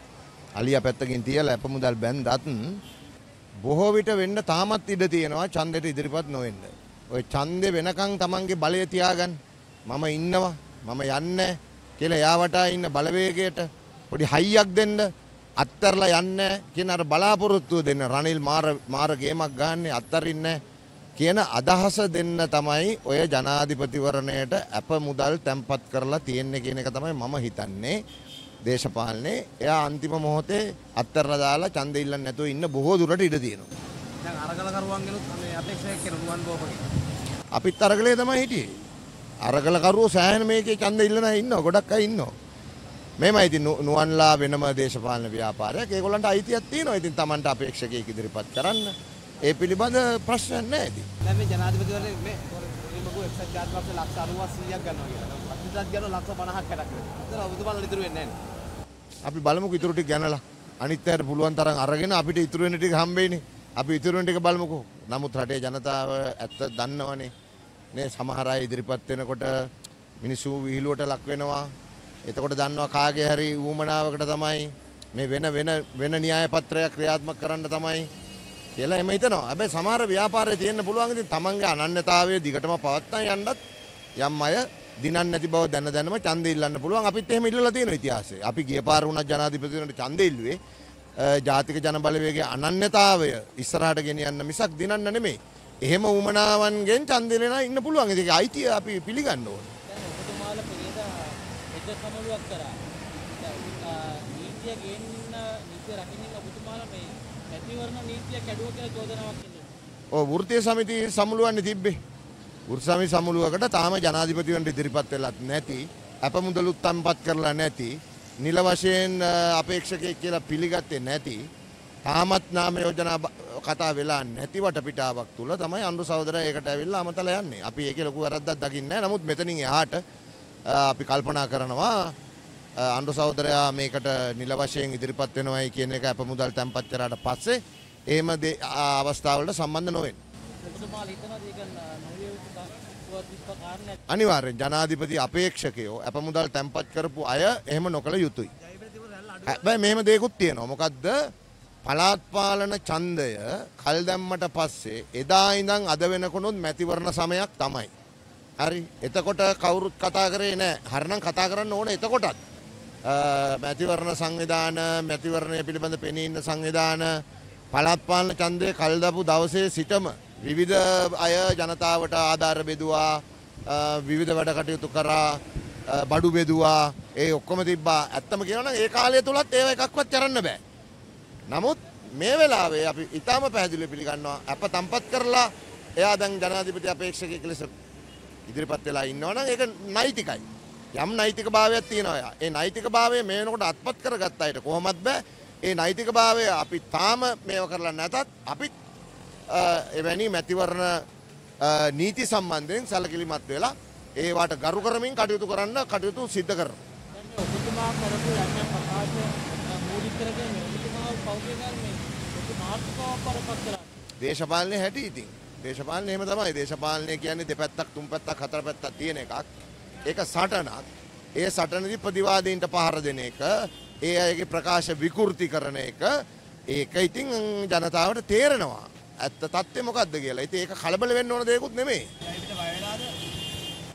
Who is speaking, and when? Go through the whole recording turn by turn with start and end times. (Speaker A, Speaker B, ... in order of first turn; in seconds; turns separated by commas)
Speaker A: 0.6-2.8, Speaker A: 3.6-9.4, Speaker A: 9.9-15.1, Speaker A: 15.6-20.6, Speaker A: 21.2-27.9, Speaker A: 28.6-33.7, Speaker B: 34.2-36.8, Speaker A: 37.5-38.7, Speaker A: 39.4-42.3, Speaker A: 43.2-51.1, Speaker B: 51.3-58.3, Speaker A: 59.2-67.3, Speaker A: 67.9-69.5, Speaker A: 70.2-71.7, Speaker A: 72.3-78.0, Speaker A: 78.8-83.6, Speaker A: 84.2-90.6, Speaker A: 91.2-99.7, Speaker C: 99.9-102.7, Speaker C: 103.4-109.7, Speaker A: 110.1-112.0, Speaker A: 112.7-121.4, Speaker A: 122.0-130.0, Speaker A: 130.7-132.1, Speaker A: 132.8-137.6, Speaker A: 138.1-140.2, Speaker C: 140.6-144.0, Speaker A: 144.1-148.5, Speaker A: 149.4-151.2, Speaker A: 151.8-157.9, Speaker A: 158.6-162.4, Speaker A: 163.0-167.2, Speaker A: 167.7-175.4, Speaker A: 175.9-180.6, Speaker A: 181.5-185.5, Speaker A: 186.0-187.7, Speaker A: 188.5-198.7, Speaker A: 199.5-201.0, Speaker A: 201.6-206.8, Speaker C: 207.1-213.9, Speaker A: 214.2-219.5, Speaker A: 220.1-220.8, Speaker A: 221.4-226.1, Speaker A: 226.7-232.1, Speaker B: 232.5-233.1